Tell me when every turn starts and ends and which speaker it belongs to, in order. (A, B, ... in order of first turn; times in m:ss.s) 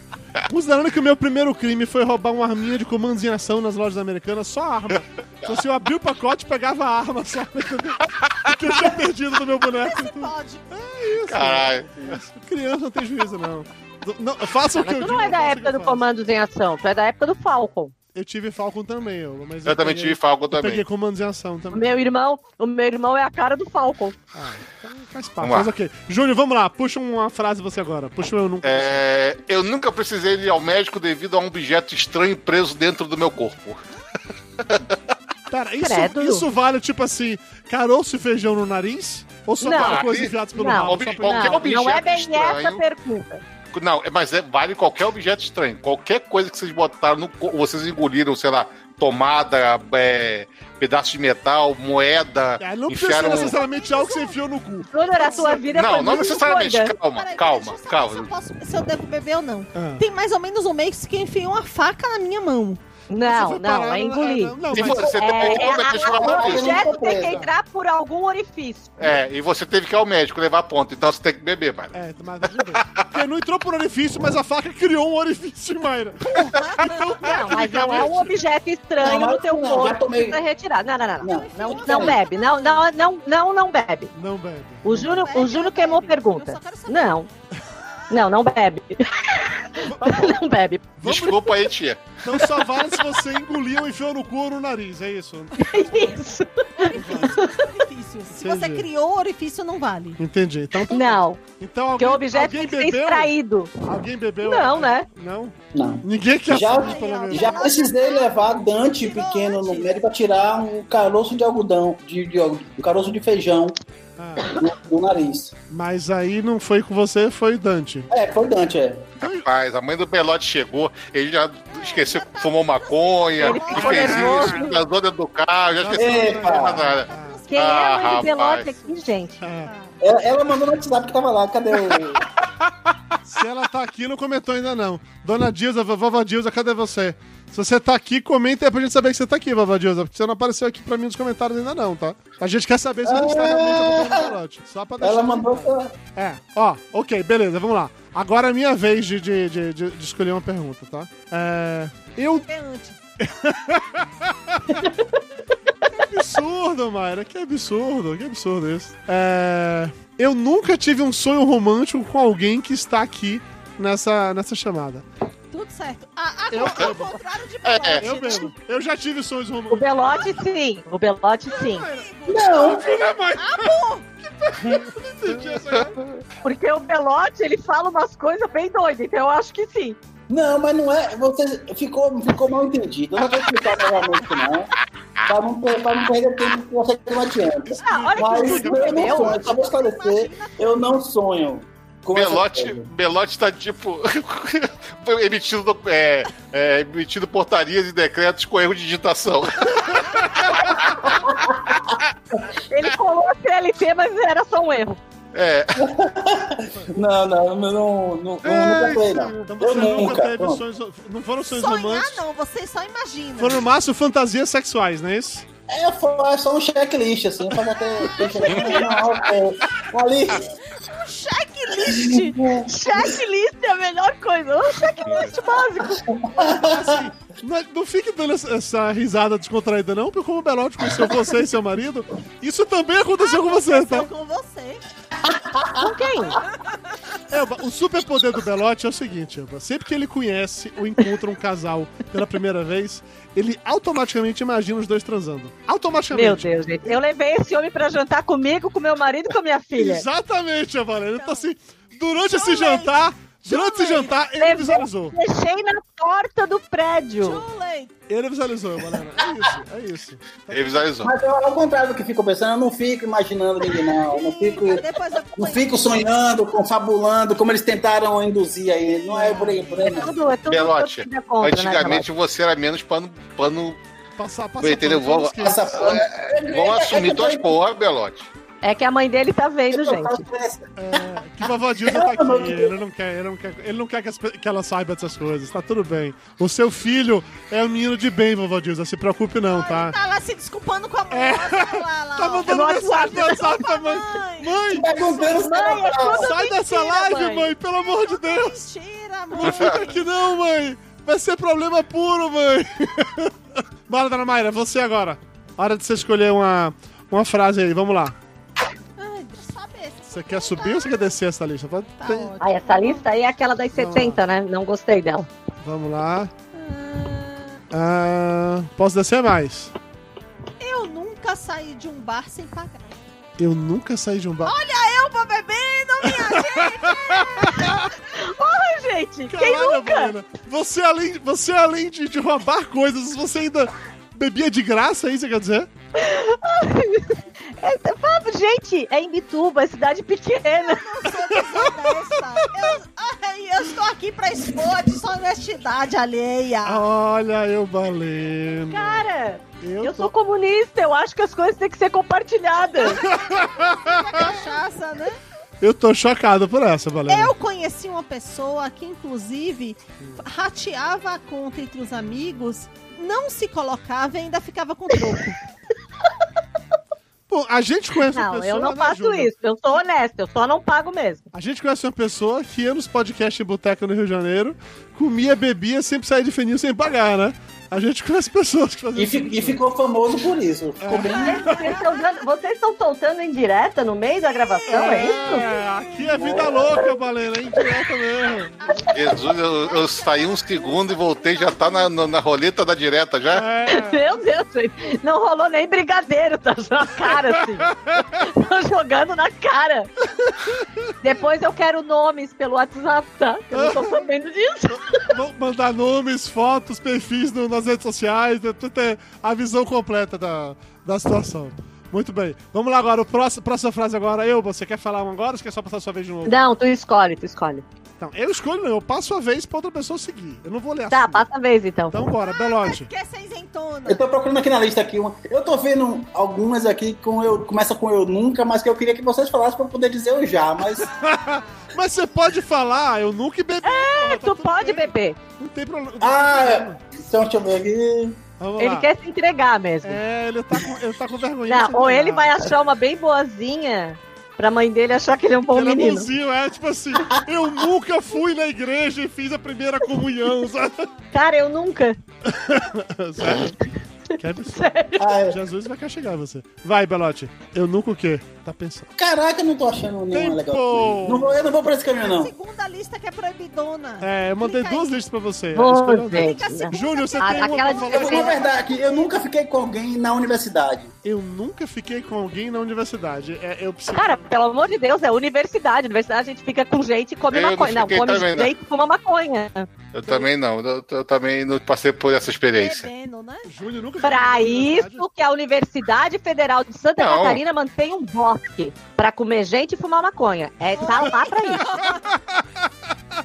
0:00.5-0:16.0 A
0:08.2-0:08.5 B
0:09.7-0:10.8 C
0:11.3-0:12.2 B
0:14.8-0:17.9 D
0:18.1-0:22.1 A
0:19.7-0:20.8 B
0:21.7-0:24.2 D
0:24.4-0:29.0 A
0:25.4-0:25.7 B
0:28.6-0:33.8 B
0:34.6-0:35.0 B
0:35.5-0:41.6 A
0:35.8-0:36.4 D
0:39.6-0:43.4 D
0:39.7-0:42.8 B
0:43.7-0:53.5 B
0:52.6-0:55.6 A
0:53.2-0:54.4 C
0:54.9-0:56.9 D
0:54.9-0:55.7 C
0:55.7-0:58.3 B
0:57.1-1:02.8 C
0:59.8-1:00.0 A
1:03.1-1:09.1 D
1:03.2-1:05.1 A
1:04.7-1:06.9 B
1:04.8-1:07.4 E
1:07.2-1:07.5 A
1:09.0-1:12.0 B
1:11.9-1:18.4 A
1:12.7-1:13.1 B
1:16.4-1:17.1 C
1:17.1-1:24.1 D
1:19.0-1:20.4 E
1:21.2-1:22.2 E
1:21.2-1:22.9 C
1:24.2-1:25.2 A
1:24.8-1:27.3 D
1:24.9-1:27.3 C
1:28.1-1:30.9 D
1:29.8-1:30.4 A
1:31.0-1:31.6 A
1:31.0-1:32.3 B
1:32.2-1:35.7 A
1:35.6-1:37.6 D
1:36.8-1:40.2 C
1:36.9-1:37.4 A
1:38.4-1:38.9 A
1:40.2-1:47.7 A
1:40.9-1:41.4 D
1:42.0-1:43.7 D
1:44.4-1:45.1 D
1:45.7-1:53.8 E
1:46.7-1:50.0 C
1:54.2-1:54.6 A
1:54.4-1:55.5 E
1:55.7-1:58.1 A
1:58.1-1:59.1 E
1:59.2-2:08.7 B
2:01.7-2:04.7 C
2:03.4-2:04.8 D
2:03.7-2:04.6 A
2:05.8-2:07.4 A
2:06.0-2:06.9 E
2:06.9-2:10.0 C
2:07.5-2:09.4 D
2:09.4-2:09.7 A
2:10.0-2:12.2 E
2:11.9-2:12.2 A
2:13.2-2:32.5 A
2:23.0-2:24.3 E
2:25.0-2:26.0 E
2:32.5-2:33.0 C
2:33.2-2:34.9 A
2:35.9-2:45.0 A
2:45.5-2:48.5 C
2:46.5-2:47.2 A
2:47.6-2:48.1 B
2:48.0-2:50.3 A
2:49.7-2:51.9 D
2:51.5-2:54.2 C
2:52.3-2:52.9 E
2:52.5-2:53.7 A
2:54.4-2:56.0 A
2:55.7-2:56.0 B
2:56.4-3:00.0 D
3:00.3-3:04.7 E
3:05.3-3:12.9 E
3:07.6-3:09.5 A
3:07.7-3:09.4 D
3:09.1-3:11.0 C
3:12.1-3:22.1 B
3:21.1-3:21.8 E
3:22.7-3:25.0 D
3:25.3-3:25.9 B
3:25.8-3:30.6 E
3:26.7-3:27.0 A
3:28.4-3:29.3 B
3:29.4-3:32.2 A
3:31.5-3:33.6 C
3:33.4-3:35.5 A
3:35.7-3:40.5 E
3:38.5-3:39.3 B
3:40.7-3:42.4 C
3:41.8-3:43.1 E
3:42.7-3:46.1 D
3:45.1-3:45.3 B
3:46.1-3:47.1 E
3:46.4-3:54.1 A
3:53.2-3:54.8 C
3:55.2-3:56.0 E
3:55.8-3:56.4 D
3:56.6-3:57.0 C
3:57.3-4:06.7 A
4:06.1-4:10.0 D
4:09.8-4:15.2 A
4:11.1-4:11.5 C
4:12.2-4:13.0 C
4:13.5-4:14.1 C
4:13.5-4:17.4 D
4:17.2-4:18.0 C
4:18.1-4:20.9 A
4:20.5-4:21.1 B
4:21.0-4:24.8 E
4:24.1-4:26.1 C
4:25.4-4:30.2 E
4:29.1-4:30.2 C
4:29.8-4:32.1 D
4:30.5-4:33.8 B
4:34.2-4:35.9 A
4:34.6-4:38.3 B
4:35.4-4:37.6 E
4:38.6-4:40.2 D
4:39.7-4:41.0 E
4:40.8-4:50.0 A
4:41.8-4:42.8 E
4:49.5-4:55.8 C
4:51.1-4:55.0 A
4:52.5-4:53.4 D
4:54.7-4:56.3 E
4:55.1-4:57.5 D
4:56.1-4:58.6 A
4:57.6-5:00.0 C
4:59.3-5:03.3 A
4:59.4-4:59.8 B
5:03.9-5:08.2 A
5:09.0-5:11.0 C
5:10.1-5:12.3 A
5:12.0-5:13.1 C
5:12.4-5:15.3 D
5:13.8-5:14.2 A
5:15.6-5:16.3 A
5:16.5-5:17.6 C
5:17.7-5:19.7 A
5:20.6-5:23.0 C
5:23.4-5:24.6 A
5:24.4-5:27.7 C
5:26.3-5:27.9 A
5:28.1-5:30.1 D
5:29.3-5:35.7 A
5:36.0-5:40.8 D
5:40.6-5:46.9 C
5:41.3-5:42.0 A
5:46.6-5:49.0 A
5:48.7-5:53.0 D
5:49.6-5:50.1 A
5:52.8-5:54.4 A
5:53.7-5:55.2 C
5:55.6-5:57.3 A
5:57.1-6:05.4 C
6:07.3-6:09.3 A
6:08.1-6:11.3 D
6:11.3-6:19.6 A
6:19.0-6:21.5 E
6:20.8-6:21.8 A
6:21.0-6:21.9 C
6:21.2-6:25.5 D
6:24.5-6:26.4 C
6:24.7-6:28.6 A
6:26.2-6:26.8 E
6:28.6-6:32.2 C
6:28.9-6:33.5 B
6:33.3-6:34.2 A
6:33.7-6:39.9 D
6:37.1-6:38.2 A
6:40.2-6:40.9 A
6:41.0-6:45.1 D
6:43.5-6:44.1 A
6:45.0-6:56.4 A
6:56.3-6:57.6 D
6:58.0-7:01.3 A
7:00.9-7:02.0 D
7:01.9-7:02.9 A
7:02.2-7:04.0 C
7:03.9-7:10.9 E
7:10.8-7:16.8 A
7:13.6-7:15.2 D
7:16.0-7:18.2 E
7:18.4-7:18.9 A
7:18.6-7:20.0 D
7:19.8-7:22.4 A
7:21.5-7:26.1 D
7:25.5-7:30.9 A
7:31.1-7:32.0 D
7:32.2-7:33.6 A
7:34.2-7:38.9 A
7:34.5-7:35.2 D
7:35.0-7:35.4 E
7:39.0-7:42.3 E
7:40.1-7:41.4 A
7:42.0-7:45.0 C
7:44.0-7:48.4 A
7:45.6-7:48.3 D
7:46.1-7:49.2 C
7:47.9-7:50.9 E
7:51.0-7:54.3 A
7:53.9-7:59.7 D
7:57.3-7:58.5 B
7:59.9-8:02.9 B
8:02.5-8:03.5 C
8:03.4-8:05.1 A
8:04.0-8:11.9 D
8:07.0-8:07.4 B
8:10.7-8:12.1 C
8:11.6-8:12.5 A